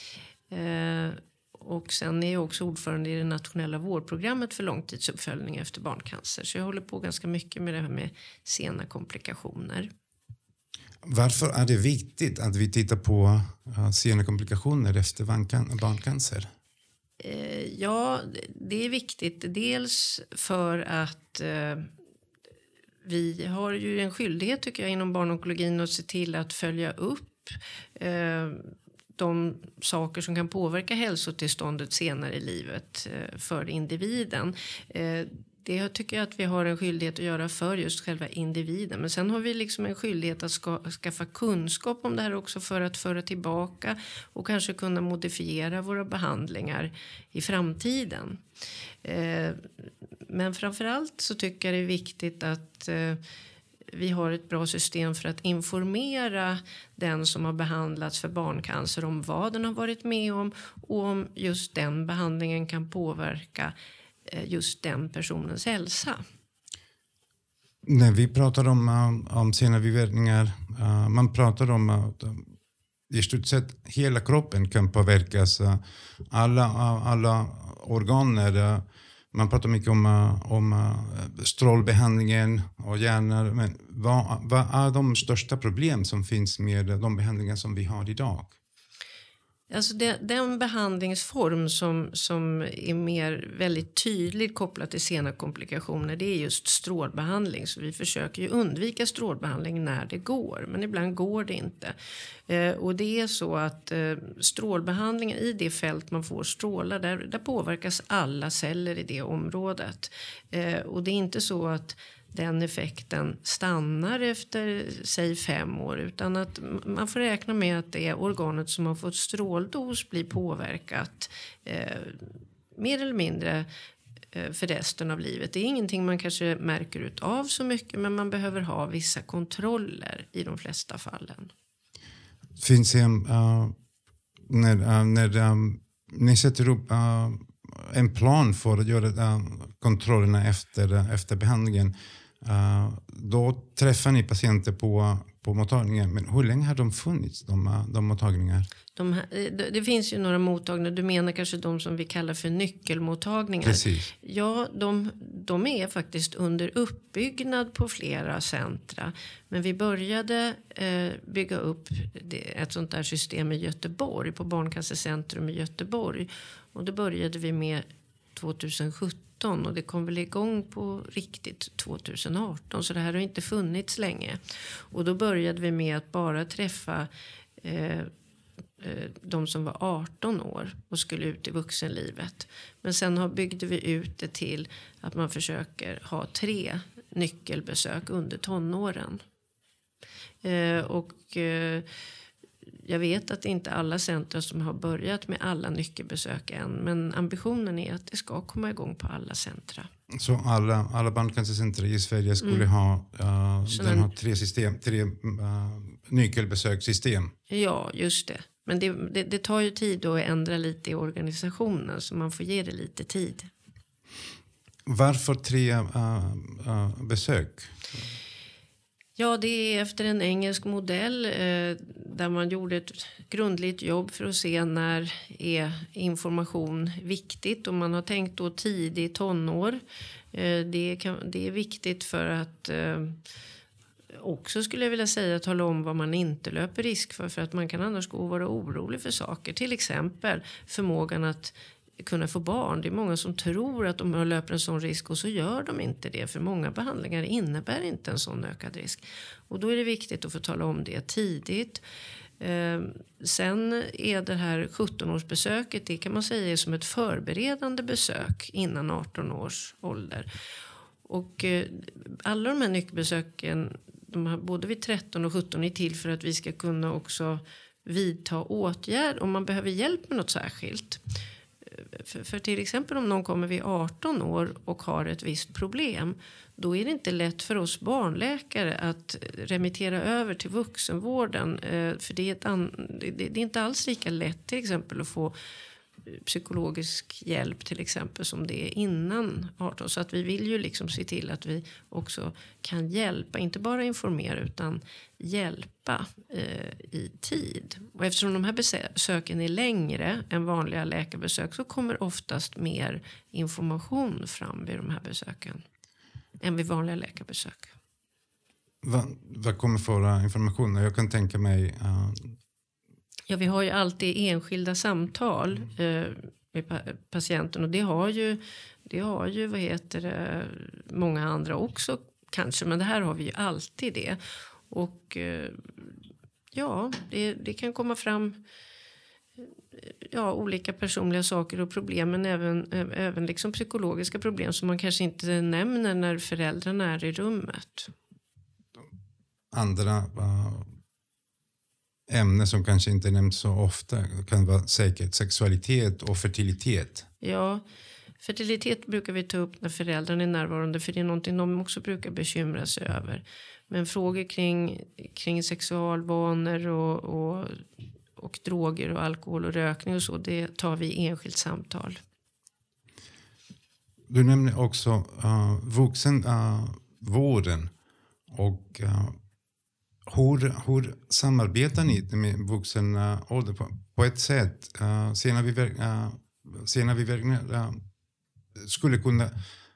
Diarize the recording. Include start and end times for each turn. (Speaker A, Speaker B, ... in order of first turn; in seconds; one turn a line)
Speaker A: 0.5-9.9
Speaker B: 11.1-16.5
Speaker A: 17.2-21.9
Speaker A: 23.0-48.4
Speaker A: 49.0-49.7
Speaker A: 50.3-53.2
Speaker A: 53.9-63.7
Speaker A: 64.3-66.2
Speaker B: 67.8-72.5
Speaker B: 73.1-88.5
Speaker A: 89.7-101.9
Speaker A: 102.5-123.7
Speaker A: 124.3-131.5
Speaker B: 132.6-133.8
Speaker B: 134.5-148.7
Speaker A: 149.0-167.8
Speaker B: 153.6-154.1
Speaker A: 168.3-177.1
Speaker A: 177.6-178.1
Speaker A: 178.8-189.2
Speaker A: 190.4-191.9
Speaker A: 192.8-199.9
Speaker B: 200.2-207.3
Speaker A: 202.4-202.7
Speaker A: 203.7-204.1
Speaker A: 207.5-213.5
Speaker B: 214.9-217.8
Speaker A: 219.2-229.8
Speaker A: 230.3-233.2
Speaker A: 234.1-251.8
Speaker A: 252.4-260.3
Speaker A: 261.1-271.0
Speaker A: 271.7-285.3
Speaker A: 286.1-305.6
Speaker A: 306.4-307.7
Speaker B: 308.8-312.4
Speaker A: 313.3-325.9
Speaker A: 326.5-328.4
Speaker A: 329.4-337.9
Speaker B: 339.5-340.7
Speaker B: 342.1-347.1
Speaker A: 347.2-347.6
Speaker A: 348.2-357.6
Speaker A: 358.2-362.0
Speaker B: 364.1-367.7
Speaker B: 368.3-369.2
Speaker B: 370.1-377.8
Speaker B: 378.6-379.4